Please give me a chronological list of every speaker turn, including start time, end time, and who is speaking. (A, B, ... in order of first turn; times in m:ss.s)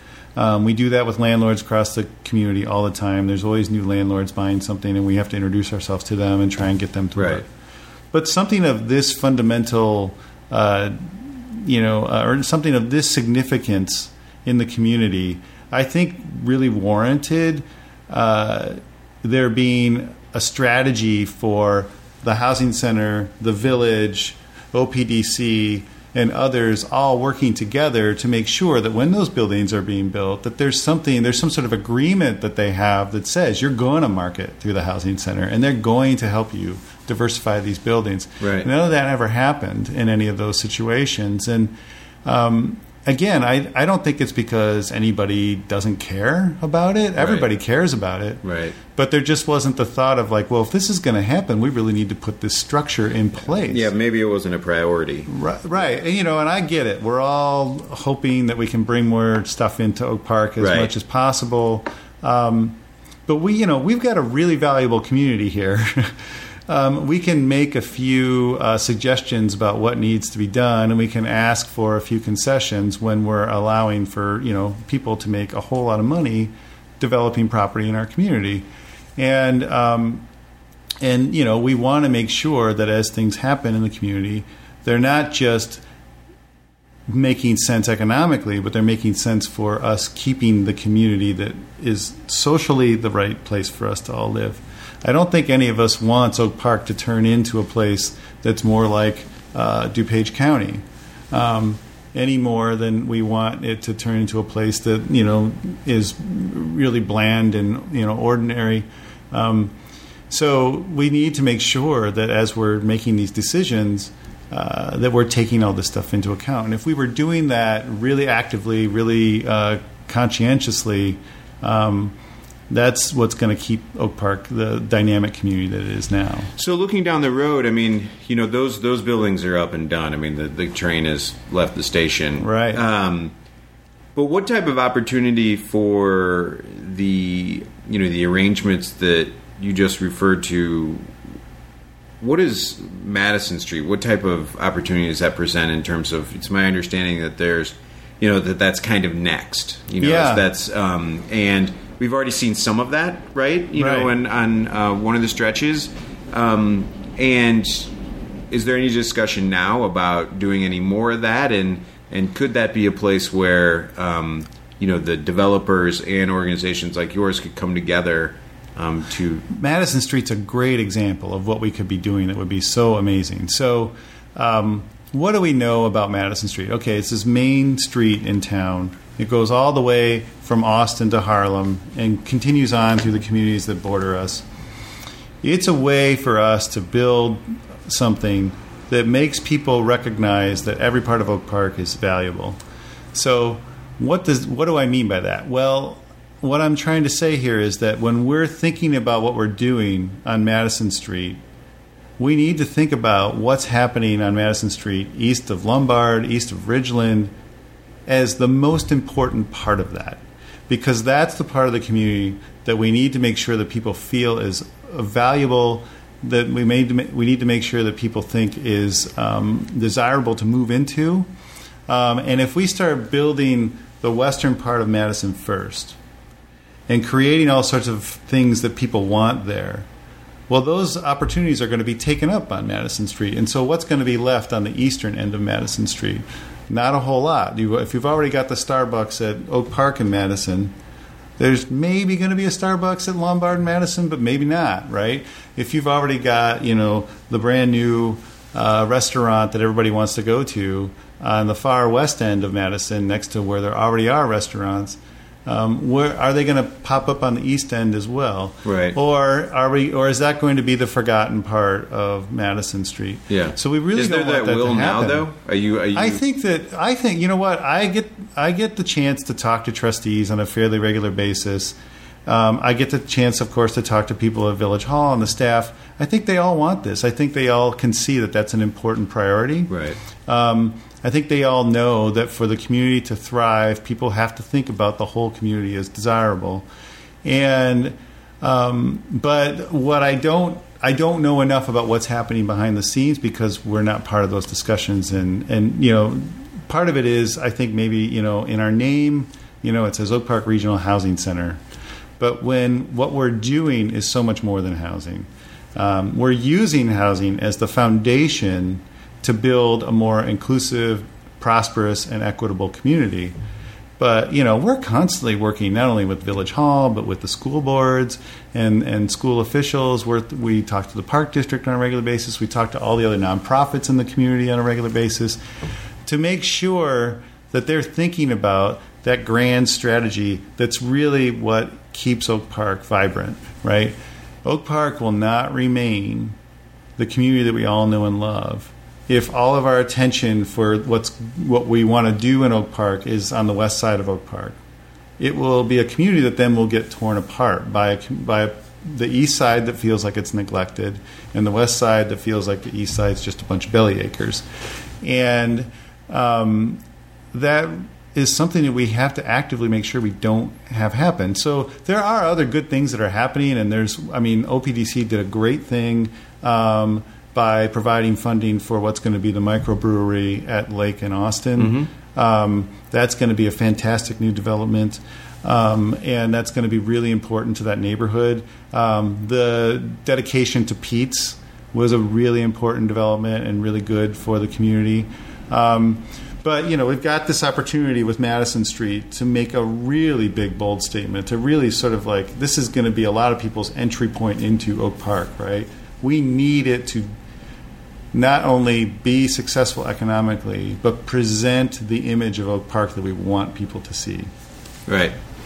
0:00.4-0:07.5 A
0:07.2-0:07.4 B
0:08.1-0:41.7 A
0:38.4-0:38.7 B
0:42.2-0:53.9 A
0:47.2-0:47.5 B
0:48.4-0:48.8 B
0:53.6-0:55.9 B
0:55.3-1:06.2 A
1:00.6-1:00.9 B
1:06.7-1:20.2 A
1:21.0-1:25.8 A
1:27.1-1:49.7 A
1:50.3-2:02.2 A
2:02.7-2:06.5 A
2:06.6-2:13.3 B
2:12.4-2:12.8 A
2:14.2-2:21.1 B
2:22.2-2:37.9 B
2:30.0-2:30.5 A
2:33.8-2:34.1 A
2:38.5-2:49.4 B
2:49.5-3:04.5 A
3:05.4-3:12.6 A
3:13.1-3:21.4 A
3:22.2-3:27.3 A
3:28.1-3:41.3 A
3:41.9-3:46.0 A
3:46.9-3:49.9 A
3:50.5-4:00.7 A
4:01.4-4:25.3 A
4:18.6-4:19.0 B
4:23.3-4:26.2 B
4:25.9-4:46.7 A
4:39.7-4:40.0 B
4:47.2-5:01.6 A
5:02.2-5:13.4 A
5:14.0-5:25.4 A
5:26.1-5:36.4 A
5:37.0-5:44.6 A
5:45.2-5:54.4 A
5:55.0-5:56.8 A
5:57.3-6:37.1 A
6:11.6-6:11.9 B
6:38.1-6:44.3 A
6:44.9-6:45.2 B